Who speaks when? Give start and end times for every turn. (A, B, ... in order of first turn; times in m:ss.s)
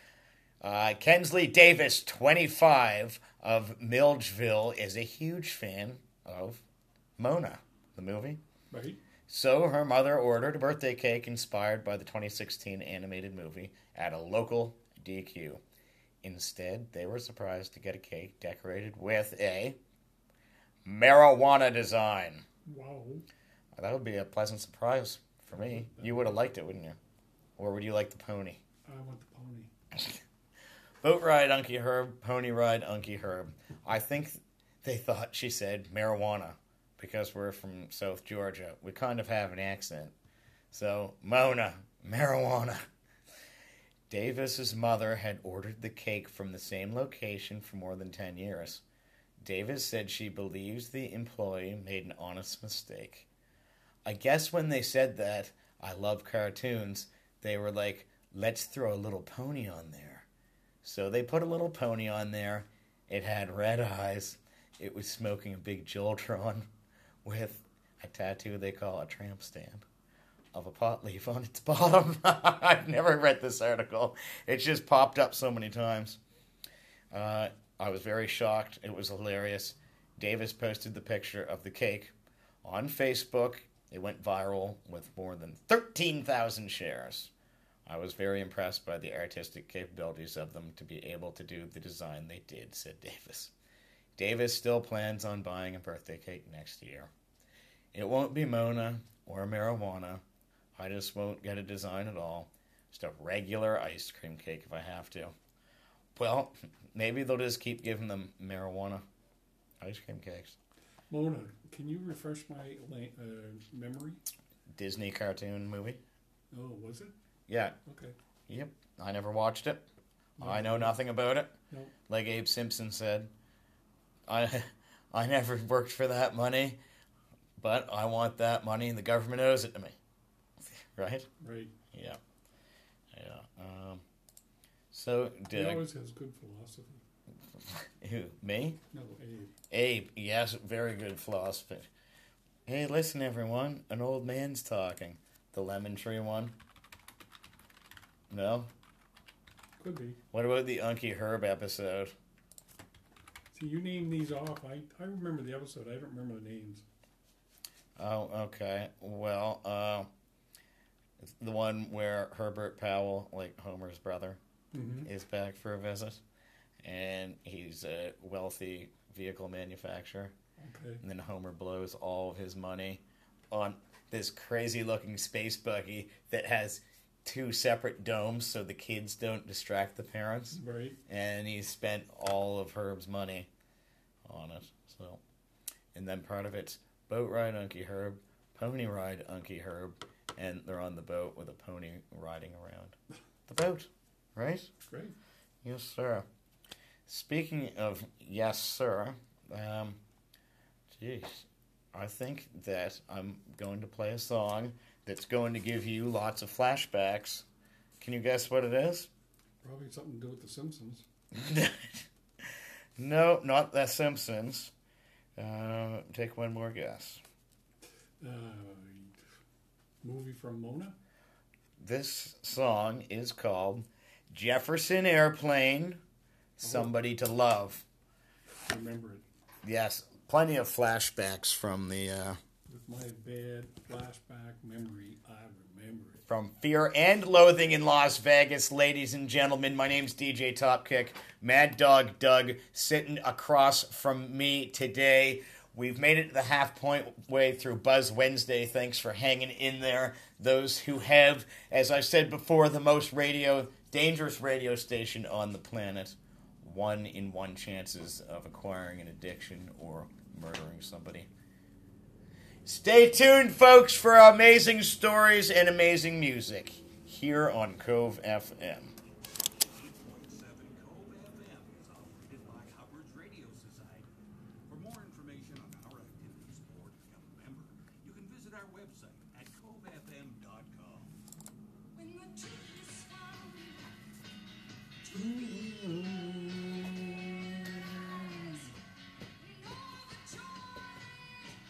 0:00.6-0:06.6 A
0:07.2-0:08.4 A
0:08.7-0:09.0 B
0:09.3-0:15.6 A
0:16.2-0:19.8 A
0:20.8-0:22.4 A
0:22.6-0:23.3 B
0:23.8-0:27.0 A
0:25.5-0:26.4 B
0:27.6-0:28.6 A
0:28.8-0:29.7 B
0:31.0-0:40.1 A
0:40.7-0:42.9 A
0:44.1-0:48.8 A
0:49.4-0:53.3 A
0:54.0-1:00.3 A
1:00.8-1:06.7 A
1:07.2-1:09.9 A
1:10.5-1:16.2 A
1:17.1-1:22.1 A
1:22.6-1:27.3 A
1:27.9-1:33.5 A
1:34.2-1:37.1 A
1:37.9-1:40.2 A
1:40.8-1:45.3 A
1:46.2-1:49.0 A
1:49.8-1:50.6 A
1:51.1-1:54.2 B
1:54.7-1:56.0 A
1:56.5-1:57.1 B
1:57.5-1:57.8 A
1:57.8-1:58.2 B
1:58.5-1:59.9 A
2:00.4-2:01.0 B
2:00.4-2:01.5 A
2:02.1-2:03.3 A
2:04.3-2:06.8 A
2:07.6-2:10.0 A
2:10.6-2:11.3 A
2:11.4-2:11.7 B
2:11.9-2:12.2 A
2:13.1-2:14.0 A
2:14.9-2:15.9 A
2:15.5-2:17.0 B
2:17.6-2:18.8 A
2:18.9-2:19.5 B
2:19.7-2:21.9 A
2:22.7-2:26.6 A
2:28.3-2:28.7 A
2:29.8-2:30.2 B
2:30.3-2:32.1 A
2:33.5-2:36.8 B
2:38.0-2:40.1 A
2:41.2-2:44.4 A
2:44.7-2:45.1 B
2:45.0-2:46.2 A
2:46.8-2:50.3 A
2:50.6-2:51.0 B
2:51.0-3:03.5 A
3:00.5-3:01.0 B
3:04.2-3:05.2 A
3:05.9-3:13.0 A
3:13.5-3:14.7 A
3:14.9-3:15.2 B
3:15.6-3:16.3 A
3:17.1-3:20.0 A
3:20.9-3:27.4 A
3:28.0-3:29.1 A
3:29.6-3:31.0 B
3:31.3-3:34.7 A
3:35.4-3:37.2 A
3:38.2-3:39.2 B
3:40.0-3:41.0 B
3:41.8-3:46.0 A
3:46.6-3:47.8 A
3:46.6-3:46.9 B
3:48.7-3:49.2 B
3:49.6-3:52.4 A
3:52.7-3:56.2 B
3:56.3-4:21.3 A
4:22.6-4:29.0 A
4:29.6-4:34.1 C
4:34.7-4:41.2 C
4:41.9-4:43.9 D
4:45.0-4:46.3 D
4:45.2-4:46.9 B
4:47.9-4:48.7 D
4:49.4-4:51.3 D